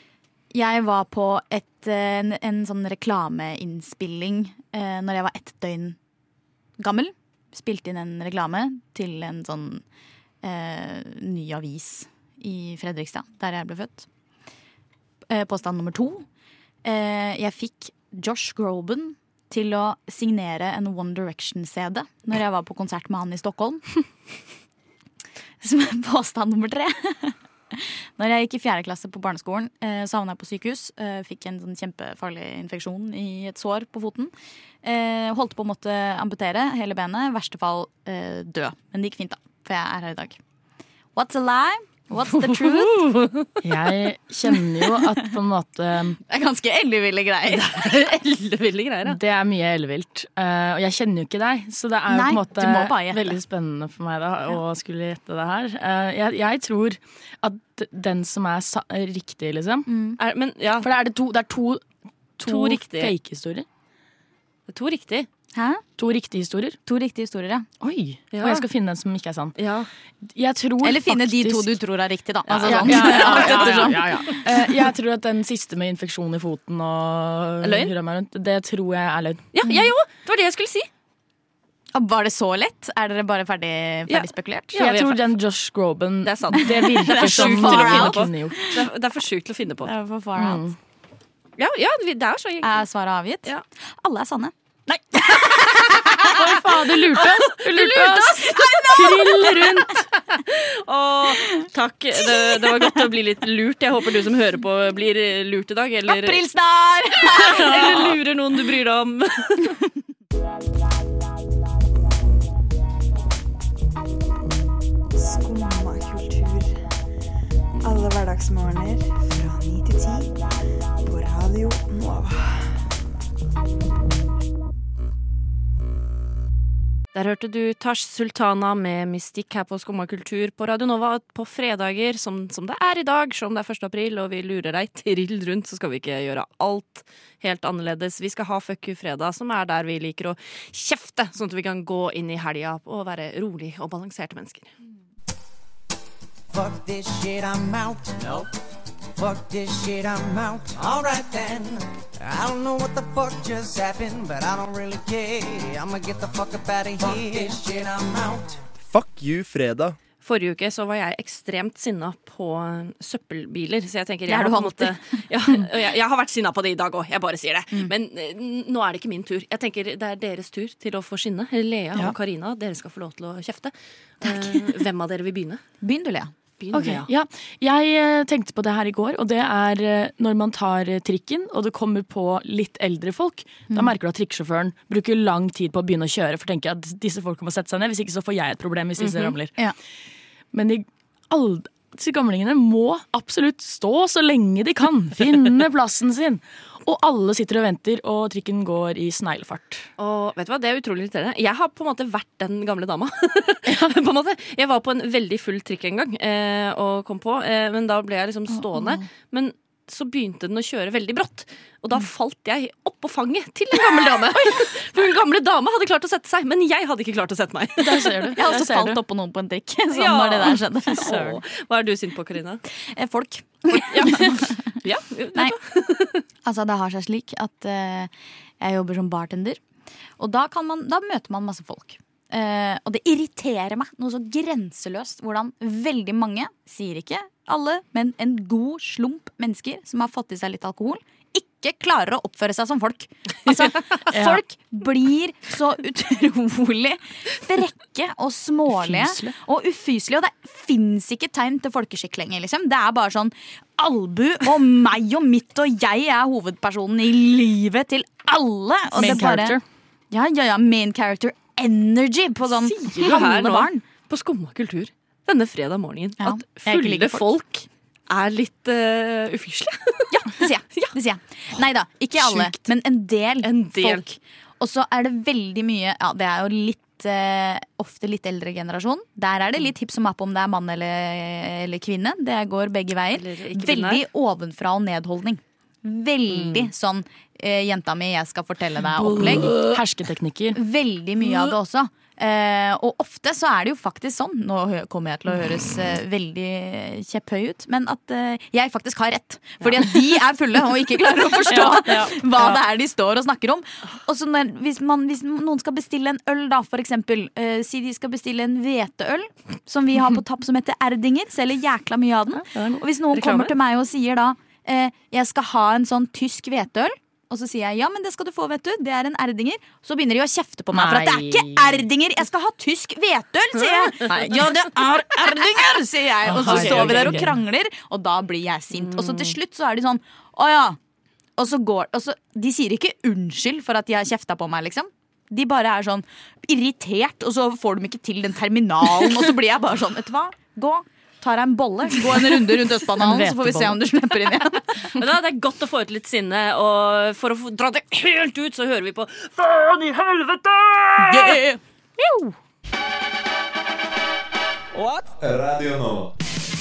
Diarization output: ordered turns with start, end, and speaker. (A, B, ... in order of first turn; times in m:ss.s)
0:00.5-0:06.0 A
0:06.8-0:09.8 A
0:10.4-0:14.1 A
0:15.3-0:16.2 A
0:16.8-0:23.8 A
0:25.6-0:34.3 A
0:34.8-0:40.4 A
0:41.1-0:43.1 A
0:42.4-0:43.5 B
0:43.6-0:46.2 C
0:46.3-0:47.8 A
0:47.5-0:49.2 B
0:49.0-0:59.9 C
0:52.1-0:53.4 A
0:59.9-1:00.2 A
1:00.2-1:00.9 B
1:00.8-1:01.8 C
1:02.4-1:03.6 C
1:02.4-1:03.1 B
1:04.7-1:05.3 B
1:05.5-1:05.8 A
1:06.0-1:06.8 C
1:06.8-1:07.7 A
1:07.8-1:09.6 C
1:08.3-1:08.6 B
1:09.6-1:09.9 B
1:10.2-1:11.8 C
1:10.8-1:14.5 A
1:12.5-1:14.1 B
1:12.6-1:19.4 C
1:17.6-1:17.9 B
1:19.5-1:20.9 B
1:21.9-1:24.8 A
1:24.1-1:25.2 B
1:24.8-1:28.7 C
1:26.2-1:29.9 B
1:26.7-1:28.8 A
1:29.8-1:30.6 A
1:30.4-1:30.8 C
1:31.6-1:32.8 B
1:32.6-1:33.5 A
1:34.0-1:36.3 A
1:35.6-1:36.5 B
1:36.2-1:40.0 C
1:37.1-1:39.0 B
1:38.4-1:39.8 A
1:40.3-1:46.4 B
1:42.2-1:43.0 A
1:46.1-1:48.1 A
1:47.2-1:49.8 B
1:55.1-1:56.8 D
1:57.8-2:00.4 D
2:01.0-2:02.8 D
2:07.1-2:24.7 B
2:26.5-2:28.5 E
2:29.2-2:38.6 E
2:38.8-2:40.0 F
2:40.2-2:55.6 B
2:44.3-2:44.9 A
2:55.8-2:56.3 A
2:56.6-2:57.1 B
2:56.7-3:09.5 C
3:09.0-3:09.3 B
3:10.5-3:19.9 C
3:20.0-3:38.3 B
3:23.7-3:23.9 C
3:37.8-3:39.0 C
3:38.4-3:41.4 A
3:39.9-3:42.6 B
3:41.0-3:41.3 C
3:42.8-3:44.6 A
3:43.8-3:46.2 B
3:46.4-3:49.6 A
3:50.2-4:19.6 A
4:04.1-4:04.4 C
4:08.7-4:09.3 C
4:18.9-4:19.6 C
4:20.1-4:23.8 A
4:22.6-4:30.9 B
4:26.2-4:27.2 A
4:30.1-4:49.6 A
4:32.2-4:32.6 B
4:33.4-4:34.1 B
4:43.1-4:44.0 B
4:46.4-4:46.7 B
4:49.0-4:50.6 C
4:50.5-5:30.8 A
5:01.5-5:02.6 C
5:12.4-5:12.8 C
5:13.1-5:13.5 B
5:20.7-5:21.8 C
5:23.6-5:24.6 B
5:26.2-5:27.4 C
5:26.4-5:27.3 B
5:28.7-5:29.3 B
5:31.4-5:44.9 A
5:42.9-5:43.8 C
5:44.9-5:51.2 B
5:51.0-5:51.6 A
5:52.0-5:52.3 C
5:55.1-5:56.1 F